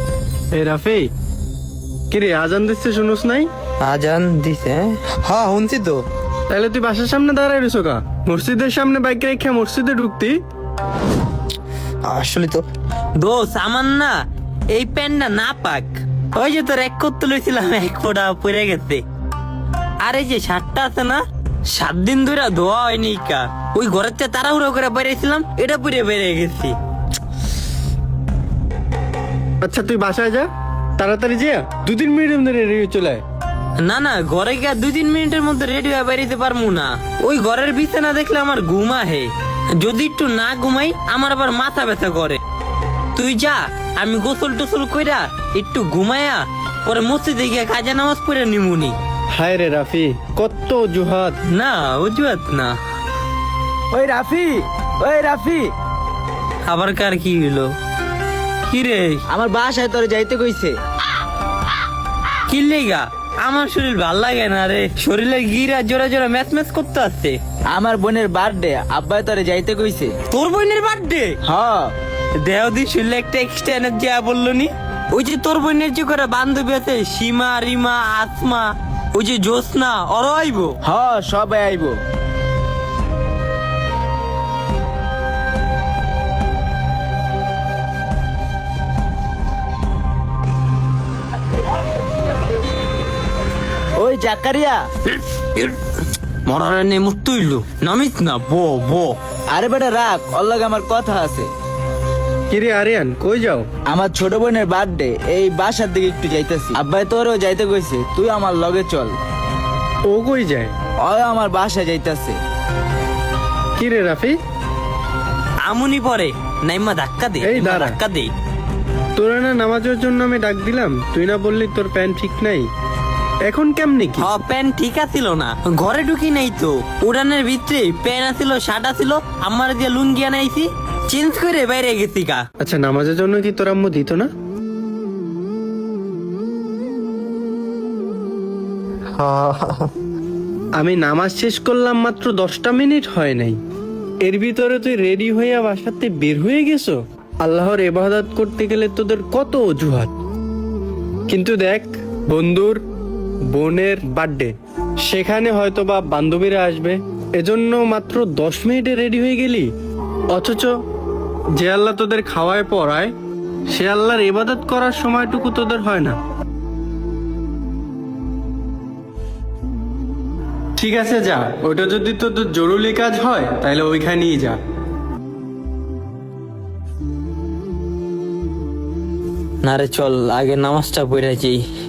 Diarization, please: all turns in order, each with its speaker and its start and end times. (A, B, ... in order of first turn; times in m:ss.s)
0:00.5-0:01.1 A
0:02.1-0:03.5 A
0:03.8-0:06.0 B
0:06.5-0:10.4 A
0:12.0-0:12.6 B
0:13.2-0:14.2 B
0:14.7-0:19.0 B
0:20.0-0:26.8 B
0:29.6-0:33.2 A
0:33.8-0:42.4 B
0:43.2-0:49.0 B
0:49.3-0:51.4 A
0:51.5-0:52.8 B
0:53.9-0:55.7 C
0:56.7-0:57.7 B
0:58.7-0:59.2 B
0:59.3-1:00.8 C
1:02.5-1:07.4 B
1:07.7-1:10.1 C
1:10.3-1:11.4 B
1:11.4-1:11.9 C
1:12.4-1:20.8 B
1:20.8-1:22.0 C
1:34.0-1:34.8 C
1:35.6-1:35.9 B
1:36.5-1:39.2 B
1:39.5-1:41.5 C
1:42.5-1:43.7 A
1:43.9-1:49.2 C
1:50.1-1:50.7 A
1:51.0-1:52.4 C
1:53.8-1:54.4 A
1:55.6-1:58.3 B
1:57.4-1:58.0 A
1:59.2-2:02.7 A
2:03.5-2:04.3 A
2:04.2-2:12.4 B
2:12.6-2:14.3 A
2:19.2-2:19.9 B
2:20.8-2:23.6 A
2:24.2-2:30.1 A
2:31.3-2:32.8 A
2:33.5-2:34.5 A
2:35.0-2:39.7 A
2:40.3-2:40.8 A
2:41.6-2:43.1 A
2:43.7-2:46.2 A
2:50.8-2:54.6 A
2:59.6-3:01.6 B